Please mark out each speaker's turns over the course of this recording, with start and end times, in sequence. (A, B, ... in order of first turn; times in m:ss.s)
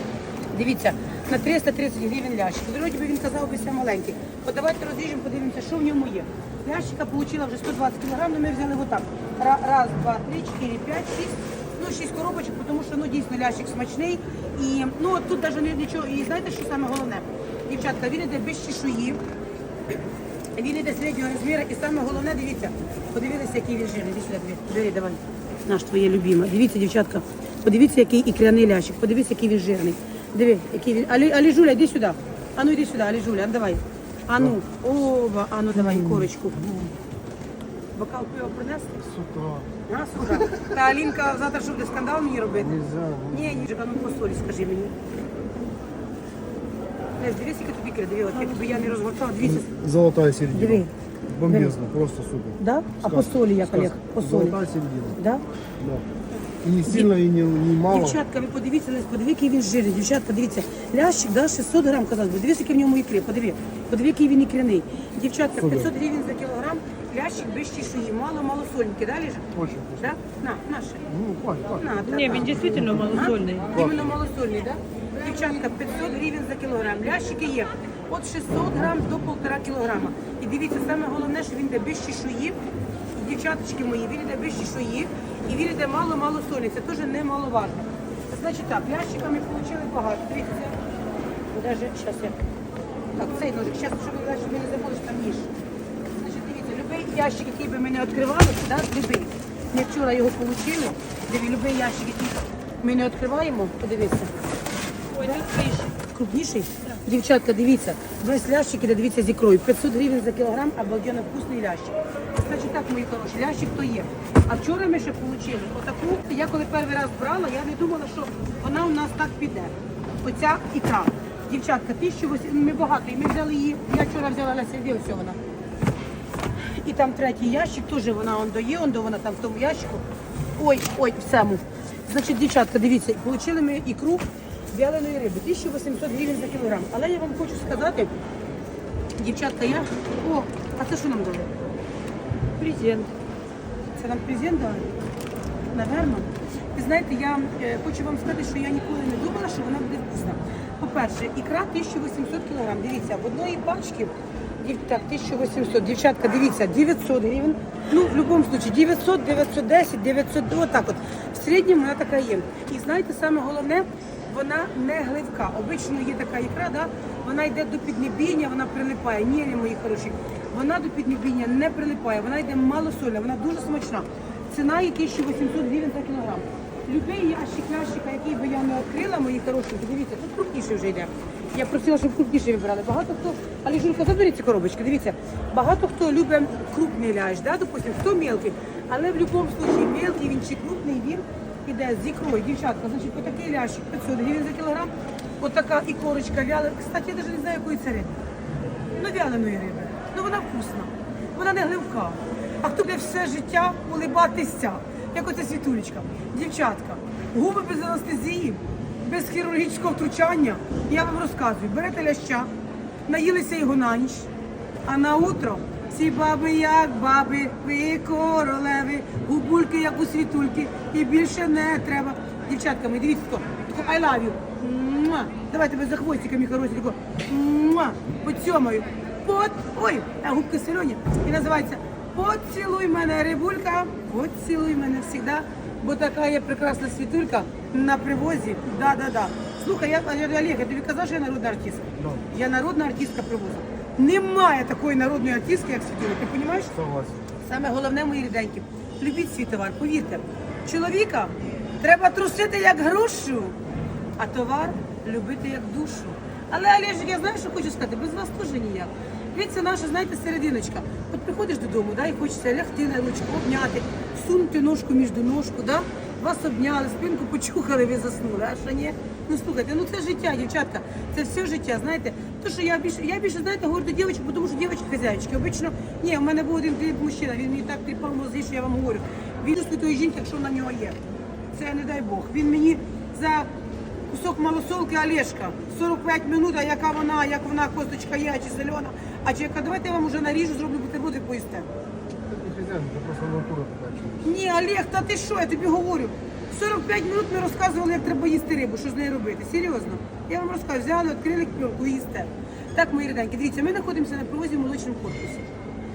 0:00.5-0:19.2 A
0:20.6-0:36.6 A
0:37.9-0:39.0 A
0:39.1-0:39.7 B
0:39.8-0:44.9 A
0:42.8-0:43.2 B
0:47.2-0:49.8 A
0:49.7-0:50.8 B
0:50.5-0:51.8 A
0:51.3-0:52.6 B
0:52.6-0:55.4 A
0:53.8-0:55.1 B
0:55.8-0:56.0 B
0:56.4-0:57.2 A
0:56.6-0:58.2 B
0:57.7-1:11.1 A
1:11.1-1:11.8 B
1:11.7-1:22.6 A
1:12.1-1:13.7 C
1:23.1-1:30.8 A
1:31.5-1:32.4 A
1:33.2-1:35.5 A
1:36.1-1:44.3 A
1:45.1-1:46.0 C
1:45.2-1:45.5 A
1:46.0-1:59.7 A
2:00.2-2:05.4 A
2:06.7-2:10.0 A
2:10.6-2:18.1 A
2:19.2-2:21.5 A
2:22.6-2:23.1 C
2:24.0-2:25.0 A
2:25.7-3:18.2 A
3:18.9-3:32.5 A
3:33.1-3:34.3 A
3:34.8-4:06.8 A
4:07.4-4:13.6 A
4:14.2-4:41.0 A
4:41.5-4:43.5 A
4:44.1-4:51.7 A
4:52.3-4:54.2 B
4:54.2-5:05.5 A